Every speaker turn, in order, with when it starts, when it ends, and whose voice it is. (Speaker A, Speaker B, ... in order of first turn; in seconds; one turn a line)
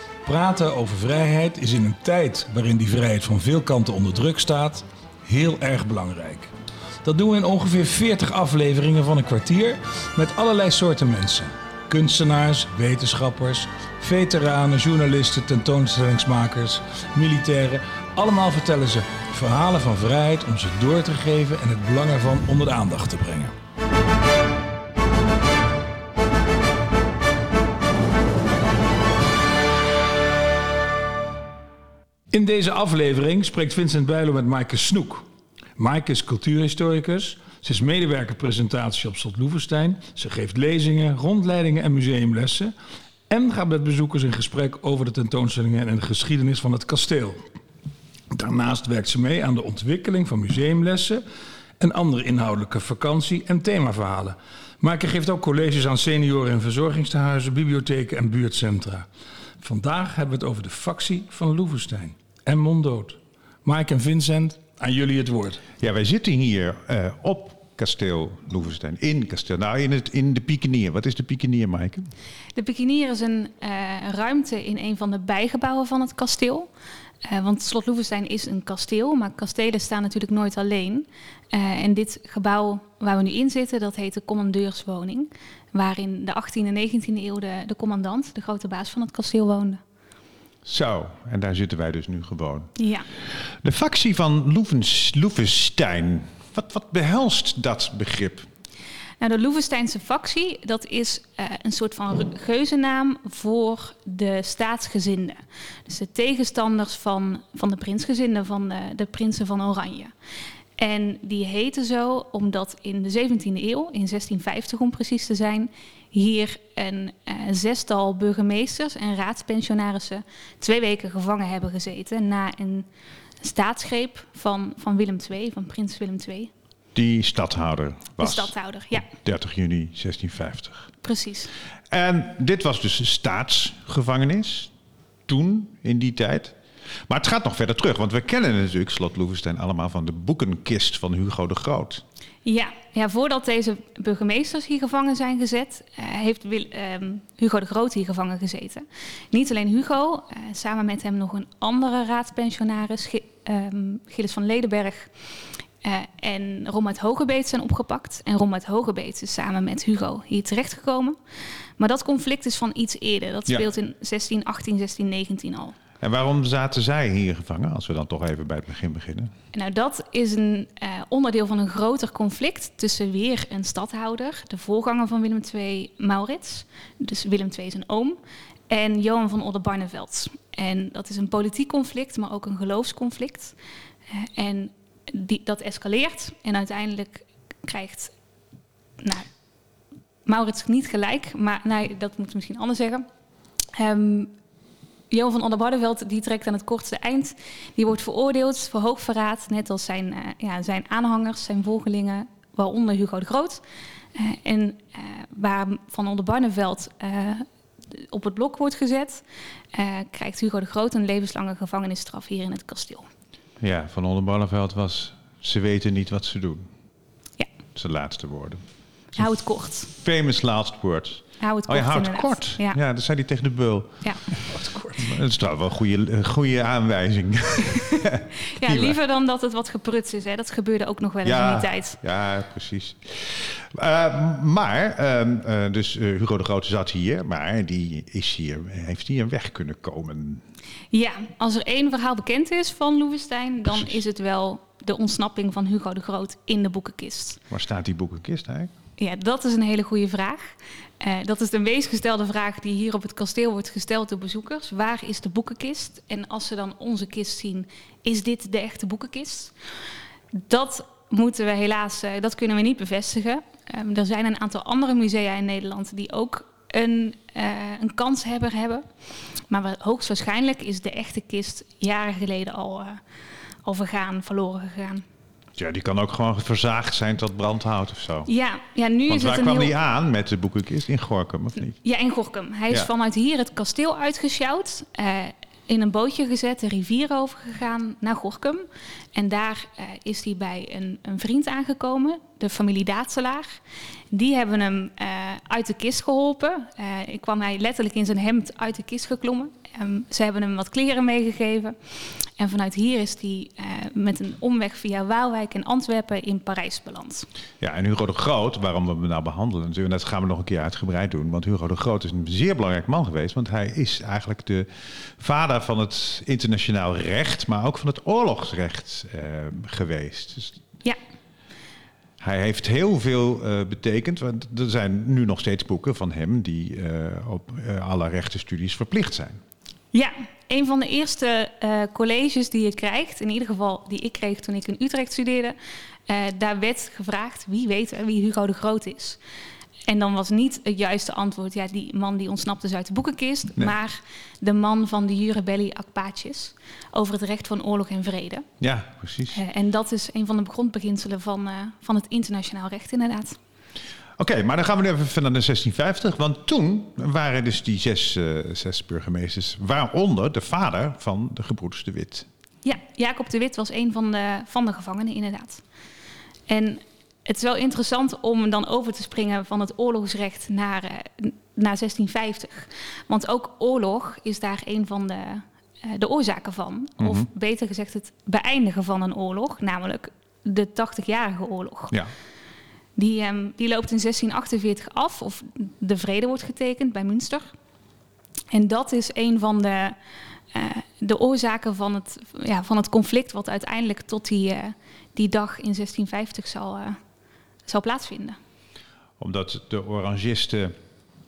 Speaker A: 0.2-6.5
Speaker A: 7.0-23.5
Speaker A: 32.3-35.2
Speaker A: 35.8-42.7
Speaker A: 43.3-47.4
Speaker A: 48.3-51.2
Speaker A: 51.8-59.0
Speaker A: 59.6-65.6
Speaker B: 65.8-72.1
Speaker C: 72.5-76.7
Speaker C: 77.2-89.8
Speaker B: 90.6-92.7
Speaker C: 92.8-93.1
Speaker B: 93.6-98.5
Speaker C: 99.2-110.1
Speaker C: 110.8-122.9
Speaker C: 123.4-126.5
Speaker B: 126.9-130.9
Speaker C: 128.2-129.1
Speaker C: 131.0-131.5
Speaker B: 131.9-134.7
Speaker B: 135.3-136.6
Speaker B: 137.1-142.0
Speaker C: 142.4-155.1
Speaker C: 155.8-161.2
Speaker C: 161.8-165.8
Speaker B: 166.0-169.3
Speaker C: 169.5-183.6
Speaker C: 184.1-188.1
Speaker C: 189.0-189.3
Speaker C: 190.2-193.0
Speaker C: 193.8-194.3
Speaker C: 195.1-203.6
Speaker C: 204.1-213.1
Speaker B: 213.6-216.7
Speaker B: 217.7-218.6
Speaker C: 219.1-219.9
Speaker B: 219.9-228.9
Speaker C: 221.4-222.8
Speaker C: 228.0-232.0
Speaker B: 231.2-240.4
Speaker C: 240.9-247.4
Speaker B: 247.5-248.7
Speaker C: 249.0-259.5
Speaker C: 260.3-268.8
Speaker C: 269.5-273.0
Speaker C: 273.6-275.0
Speaker B: 275.6-278.3
Speaker C: 278.2-279.7
Speaker B: 279.1-281.8
Speaker C: 281.8-293.6
Speaker C: 294.1-307.3
Speaker B: 307.6-320.6
Speaker B: 322.2-329.4
Speaker C: 329.9-335.6
Speaker C: 336.1-339.2
Speaker C: 339.9-348.5
Speaker B: 348.6-349.4
Speaker C: 349.3-353.4
Speaker B: 354.2-362.3
Speaker C: 362.6-365.6
Speaker C: 366.5-381.9
Speaker B: 377.0-377.3
Speaker C: 382.9-387.5
Speaker C: 388.5-390.0
Speaker C: 390.5-397.0
Speaker C: 397.6-398.4
Speaker B: 399.2-400.7